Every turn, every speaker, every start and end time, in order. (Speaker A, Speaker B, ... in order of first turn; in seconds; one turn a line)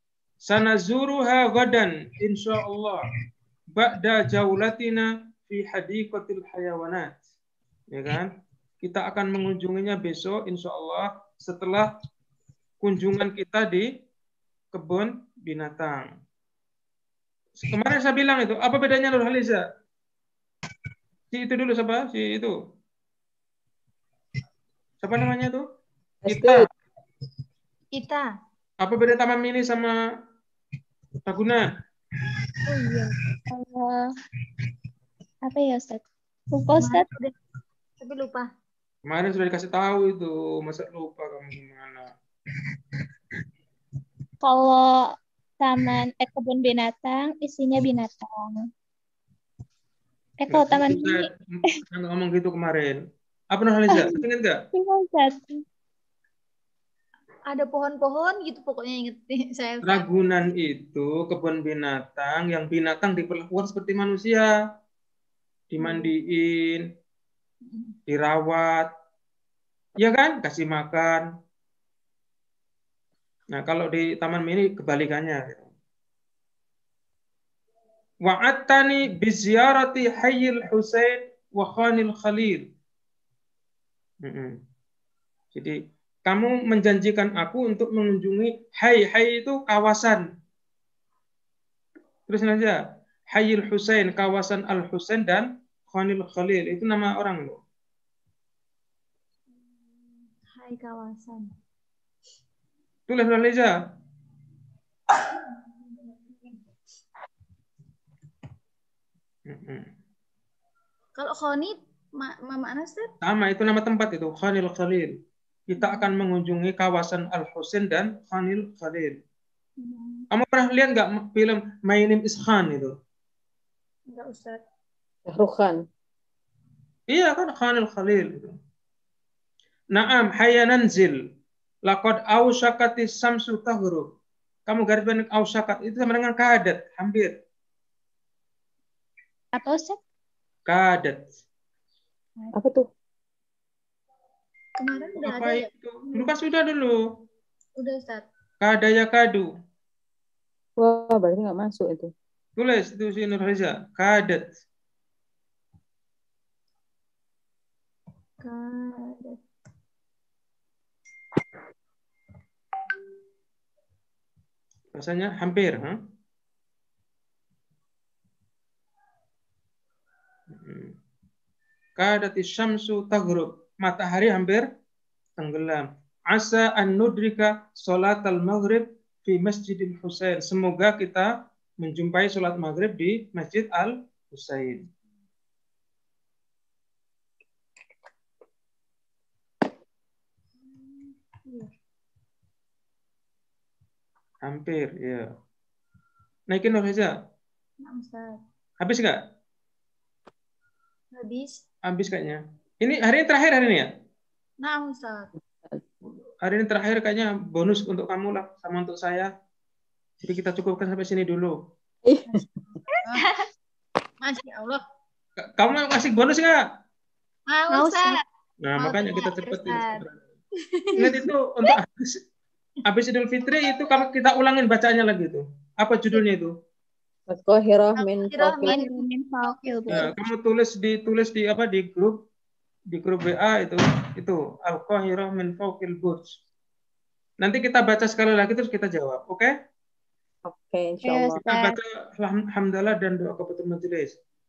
Speaker A: 0.5-3.1
Speaker A: 3.8-7.2
Speaker A: 7.9-8.3
Speaker A: 8.8-11.9
Speaker A: 12.8-13.9
Speaker A: 14.7-16.1
Speaker A: 17.6-19.6
Speaker A: 21.3-22.5
Speaker A: 25.0-25.6
Speaker B: 26.2-26.7
Speaker A: 26.3-26.7
Speaker C: 28.0-28.3
Speaker A: 28.8-30.0
Speaker A: 31.3-31.7
Speaker C: 32.7-33.1
Speaker D: 33.5-34.0
Speaker D: 35.4-37.1
Speaker C: 36.8-37.3
Speaker C: 38.0-38.5
Speaker A: 39.1-42.1
Speaker D: 44.4-48.6
Speaker D: 50.4-51.8
Speaker A: 50.5-51.3
Speaker A: 51.9-53.0
Speaker A: 53.5-54.6
Speaker D: 53.9-55.6
Speaker C: 57.5-60.1
Speaker A: 59.8-64.5
Speaker A: 65.7-66.8
Speaker C: 65.8-66.1
Speaker A: 68.1-68.9
Speaker A: 70.0-71.2
Speaker A: 73.5-75.7
Speaker A: 78.3-82.6
Speaker A: 84.2-84.6
Speaker A: 85.5-90.2
Speaker A: 92.3-92.8
Speaker A: 93.3-97.6
Speaker C: 100.4-101.5
Speaker A: 103.1-103.7
Speaker C: 105.1-105.4
Speaker A: 109.5-109.9
Speaker C: 111.2-113.1
Speaker A: 113.2-119.2
Speaker C: 115.8-116.1
Speaker C: 119.8-120.3
Speaker A: 120.3-123.0
Speaker C: 124.1-124.6
Speaker B: 125.3-125.8
Speaker A: 127.1-128.6
Speaker A: 129.9-131.2
Speaker A: 131.9-134.1
Speaker A: 134.7-137.3
Speaker D: 139.5-140.0
Speaker A: 140.7-141.3
Speaker B: 142.6-142.9
Speaker C: 144.8-145.7
Speaker A: 145.2-147.0
Speaker C: 147.8-148.3
Speaker A: 148.6-149.5
Speaker B: 150.8-152.1
Speaker A: 152.6-154.6
Speaker C: 158.4-159.4
Speaker A: 164.9-166.0
Speaker A: 170.5-170.9
Speaker A: 172.0-174.7
Speaker A: 175.4-181.3
Speaker A: 181.8-184.8
Speaker C: 190.8-191.7
Speaker A: 194.4-195.2
Speaker A: 196.5-197.1
Speaker C: 197.8-198.4
Speaker A: 198.8-199.2
Speaker C: 201.1-201.6
Speaker A: 201.9-203.9
Speaker C: 204.6-205.3
Speaker A: 206.4-209.3
Speaker A: 210.2-211.6
Speaker B: 212.1-212.5
Speaker D: 212.9-213.4
Speaker C: 214.2-214.8
Speaker A: 215.4-216.6
Speaker C: 217.5-218.2
Speaker D: 217.7-218.2
Speaker A: 218.6-220.2
Speaker C: 218.8-220.1
Speaker C: 220.7-221.3
Speaker A: 221.0-222.2
Speaker A: 222.9-226.5
Speaker B: 227.3-228.8
Speaker C: 228.0-230.1
Speaker D: 228.6-230.2
Speaker A: 229.9-232.2
Speaker A: 232.9-236.4
Speaker A: 237.4-239.5
Speaker B: 240.5-241.4
Speaker D: 241.0-241.8
Speaker A: 241.4-244.2